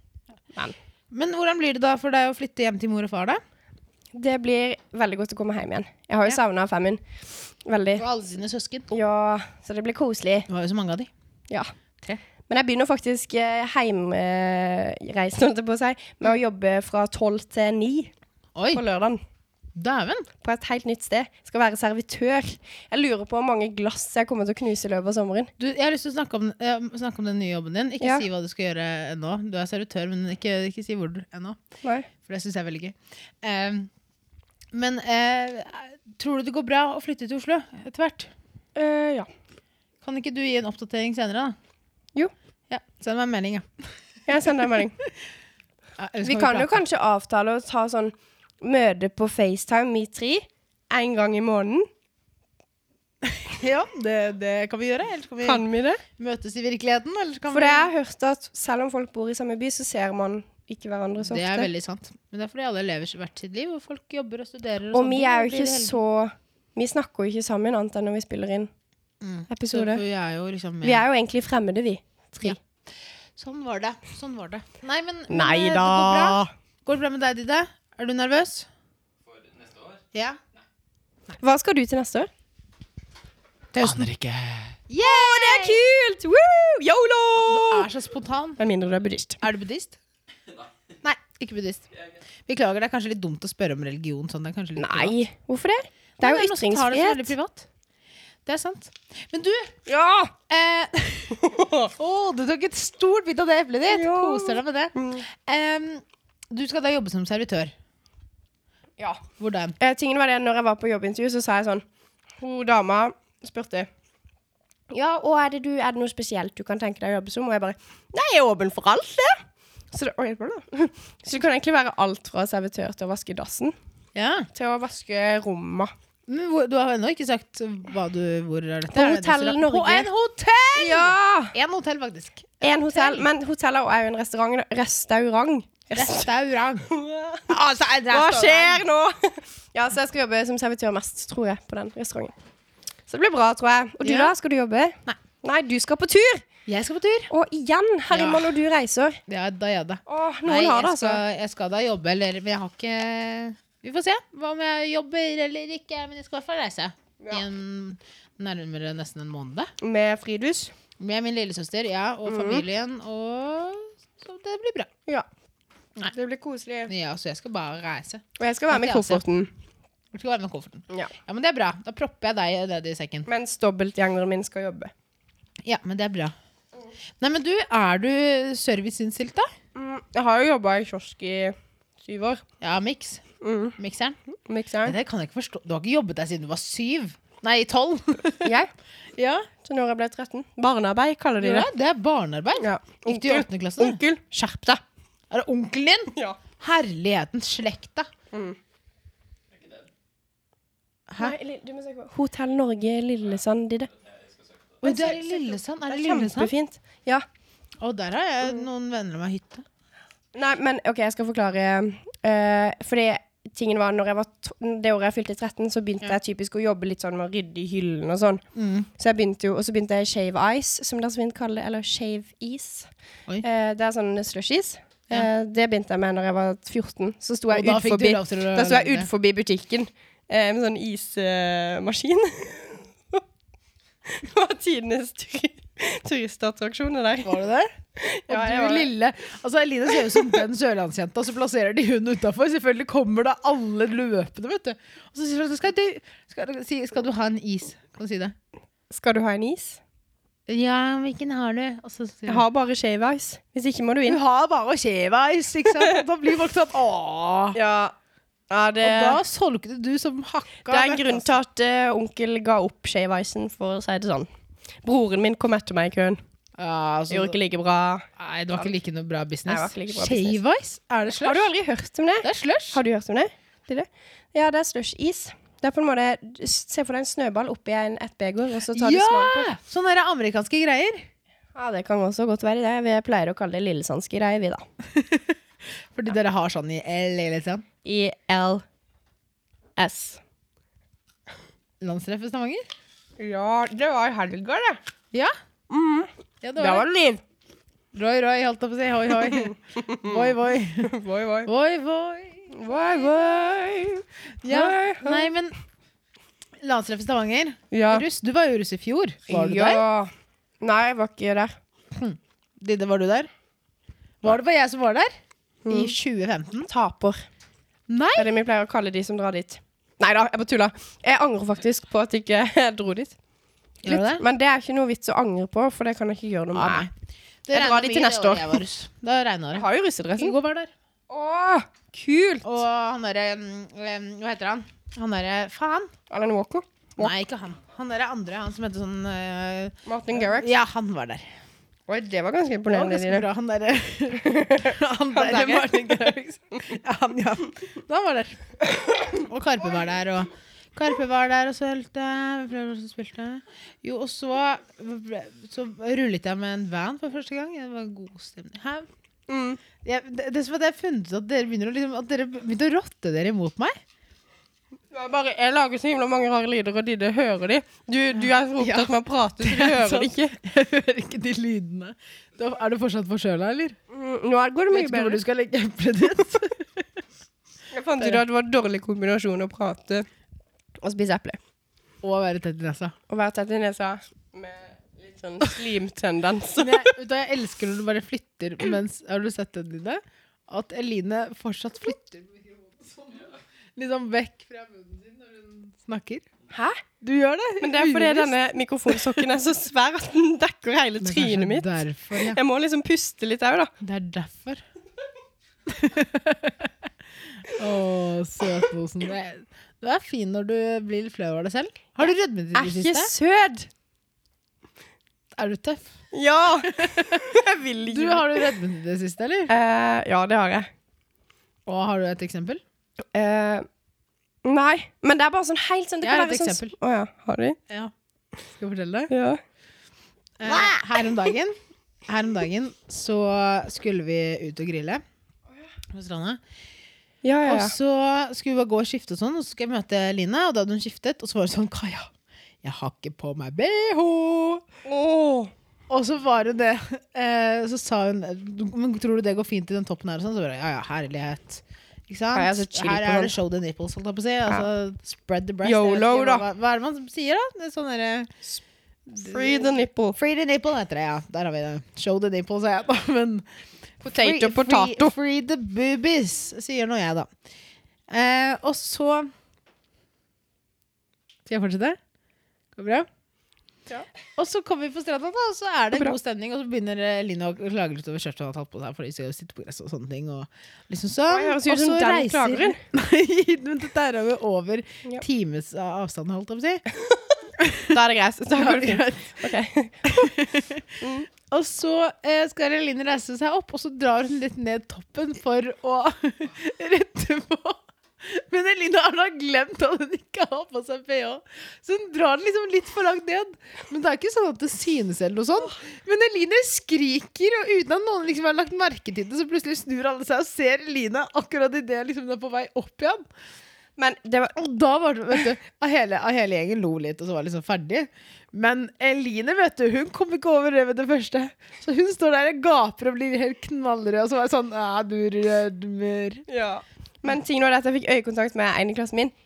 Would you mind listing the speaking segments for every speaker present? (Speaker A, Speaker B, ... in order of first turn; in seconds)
Speaker A: 1.1-3.4, 8.0-8.9, 10.5-11.1, 18.5-18.8, 19.7-20.3, 25.6-31.6, 32.2-33.9, 34.7-38.3, 40.0-41.5, 42.7-43.8, 46.0-46.8, 53.2-55.6, 56.2-57.9, 61.2-66.0, 69.2-71.0, 73.3-78.7, 80.1-80.4, 83.7-84.2, 84.9-85.8, 87.4-88.6, 89.4-90.0, 91.0-91.8, 92.5-95.1, 96.2-97.7, 98.5-99.7, 100.5-101.4, 102.0-107.7, 109.4-109.8, 124.1-124.5, 126.3-133.3, 135.9-136.9, 137.5-138.8, 144.0-144.3, 146.7-147.3, 148.1-148.5, 149.3-159.7, 161.0-164.9, 166.9-169.2, 170.1-173.3, 175.6-176.3, 177.2-179.5, 182.6-183.2, 183.8-184.2, 184.8-188.5, 189.2-189.5, 191.4-194.0, 195.3-198.1, 201.1-201.3, 204.8-206.5, 207.8-209.6, 218.5-218.9, 227.5-229.1, 237.2-237.7, 238.3-248.3, 250.5-252.4, 254.1-257.6, 258.8-261.3, 266.6-267.4, 268.2-271.5, 272.2-272.8, 278.7-281.1, 284.9-285.4, 285.9-287.6, 291.8-292.6, 296.4-296.9, 297.9-300.9, 301.4-303.0, 304.4-305.6, 306.6-309.8, 311.9-313.3, 314.2-315.1, 315.7-316.7, 317.9-318.3, 323.8-324.2, 326.5-326.9, 327.4-330.7, 332.4-335.9, 337.0-341.3, 342.7-358.9, 359.8-363.8, 368.1-373.8, 374.7-376.8, 382.0-382.9, 386.6-396.2, 397.0-398.3, 398.9-399.2, 401.0-402.4, 403.8-404.6, 405.7-406.7, 407.5-413.1, 415.3-415.9, 416.7-417.3, 417.9-419.5, 421.6-422.6, 426.0-426.7, 428.5-429.1, 430.4-435.0, 435.9-436.4, 437.4-442.1, 442.6-444.6, 445.9-458.4, 459.2-463.4, 464.0-467.3, 468.1-469.3, 471.4-472.0, 472.7-473.1, 474.4-486.8, 487.6-488.0, 488.5-489.5, 490.0-490.9, 491.5-513.2, 514.5-526.4
Speaker B: 4.1-8.0, 8.9-10.5, 12.5-18.1, 18.7-19.2, 20.4-25.5, 28.0-28.2, 31.8-32.1, 38.8-39.3, 44.3-45.0, 46.2-51.9, 55.4-56.0, 57.5-61.7, 64.9-68.7, 69.5-70.0, 70.8-72.6, 75.3-76.5, 81.4-82.3, 85.0-87.9, 88.6-89.4, 94.8-97.3, 99.9-100.3, 101.3-101.9, 103.9-105.2, 109.8-111.8, 112.4-113.9, 114.9-123.7, 124.5-125.9, 128.9-130.1, 130.8-131.5, 132.6-136.3, 136.9-137.4, 138.1-142.3, 143.1-146.4, 147.3-149.2, 150.1-151.2, 159.8-160.7, 162.2-162.6, 166.1-166.9, 168.4-169.5, 173.2-174.9, 179.7-182.4, 183.4-183.8, 184.3-184.9, 188.4-188.7, 189.6-191.7, 192.6-194.8, 198.3-198.6, 201.2-203.9, 204.8-207.2, 210.3-218.4, 219.0-222.9, 223.4-233.2, 234.1-237.4, 237.9-238.9, 248.9-249.8, 252.3-254.2, 257.5-257.9, 258.5-259.2, 260.7-264.3, 264.8-266.2, 267.1-268.7, 269.5-270.4, 271.1-279.5, 281.5-284.6, 287.8-288.6, 289.8-290.2, 293.2-294.8, 295.7-297.2, 299.2-300.2, 300.8-301.5, 302.5-305.3, 307.7-308.0, 309.3-311.6, 315.6-315.9, 316.6-317.2, 318.1-323.1, 323.9-326.9, 327.5-328.6, 329.5-330.4, 331.1-332.5, 336.1-337.1, 339.9-340.5, 341.9-343.3, 344.2-346.7, 359.3-359.6, 364.9-370.4, 373.9-375.2, 377.7-380.1, 380.8-381.4, 383.1-386.9, 396.5-396.8, 397.6-403.7, 412.5-413.7, 416.1-418.5, 419.5-420.7, 423.1-423.7, 424.4-427.6, 429.1-429.4, 430.5-430.8, 437.2-437.7, 444.8-445.5, 452.3-453.3, 455.6-456.4, 459.1-460.2, 464.0-465.1, 481.3-482.8, 487.9-490.3, 491.0-491.3, 514.0-514.5, 526.5-529.3
Speaker C: 79.2-80.0, 83.8-84.7, 199.6-199.8, 204.0-204.8